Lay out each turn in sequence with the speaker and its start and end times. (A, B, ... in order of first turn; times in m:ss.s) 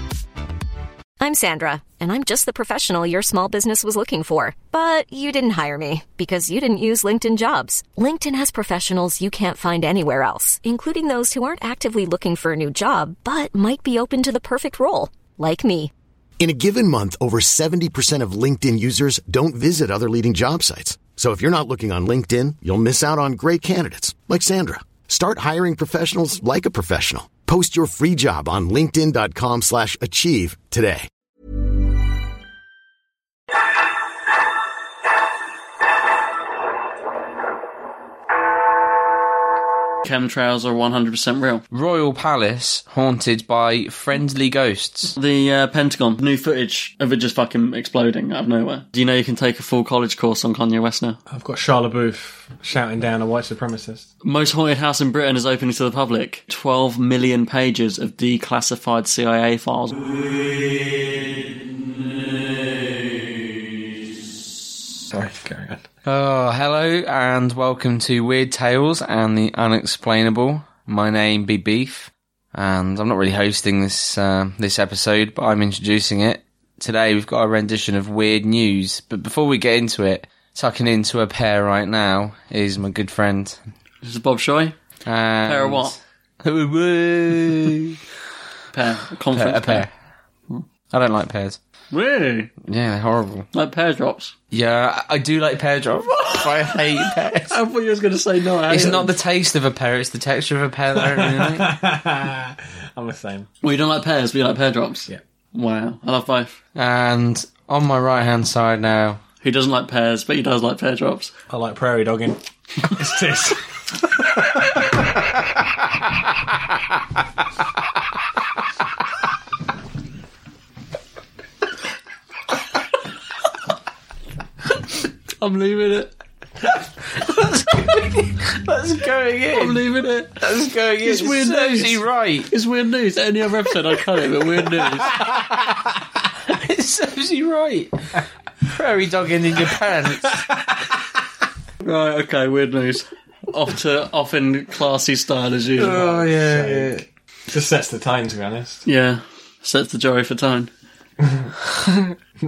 0:01.2-0:15.9 A
0:16.4-0:31.1 B
0:40.0-0:41.7 C
0:41.7-0:45.1 D
0:45.2-0:51.2 C
0:51.3-0:54.1 E
0:54.2-1:00.4 C
1:05.1-1:05.8 E
1:06.0-1:23.6 D
1:24.0-1:24.8 C
1:25.0-1:28.0 D
1:25.4-1:26.0 C
1:28.7-1:29.9 C
1:29.3-1:29.9 D
1:30.9-1:31.6 D
1:31.9-1:32.5 C
1:32.6-1:33.5 D
1:33.5-1:34.3 C
1:34.5-1:37.5 D
1:36.2-1:39.2 C
1:38.7-1:41.8 D
1:40.9-1:43.5 E
1:43.6-1:46.6 C
1:46.8-1:49.2 D
1:49.4-1:51.3 C
1:51.5-1:53.6 E
1:54.2-1:55.0 E
2:05.4-2:06.1 C
2:07.1-2:09.8 D
2:09.6-2:10.5 C
2:10.4-2:12.5 D
2:11.0-2:15.2 C
2:14.7-2:15.9 D
2:16.4-2:20.4 D
2:20.3-2:20.6 E
2:21.8-2:26.1 C
2:25.8-2:27.0 D
2:25.9-2:28.8 E
2:28.8-2:30.7 C
2:31.2-2:31.9 E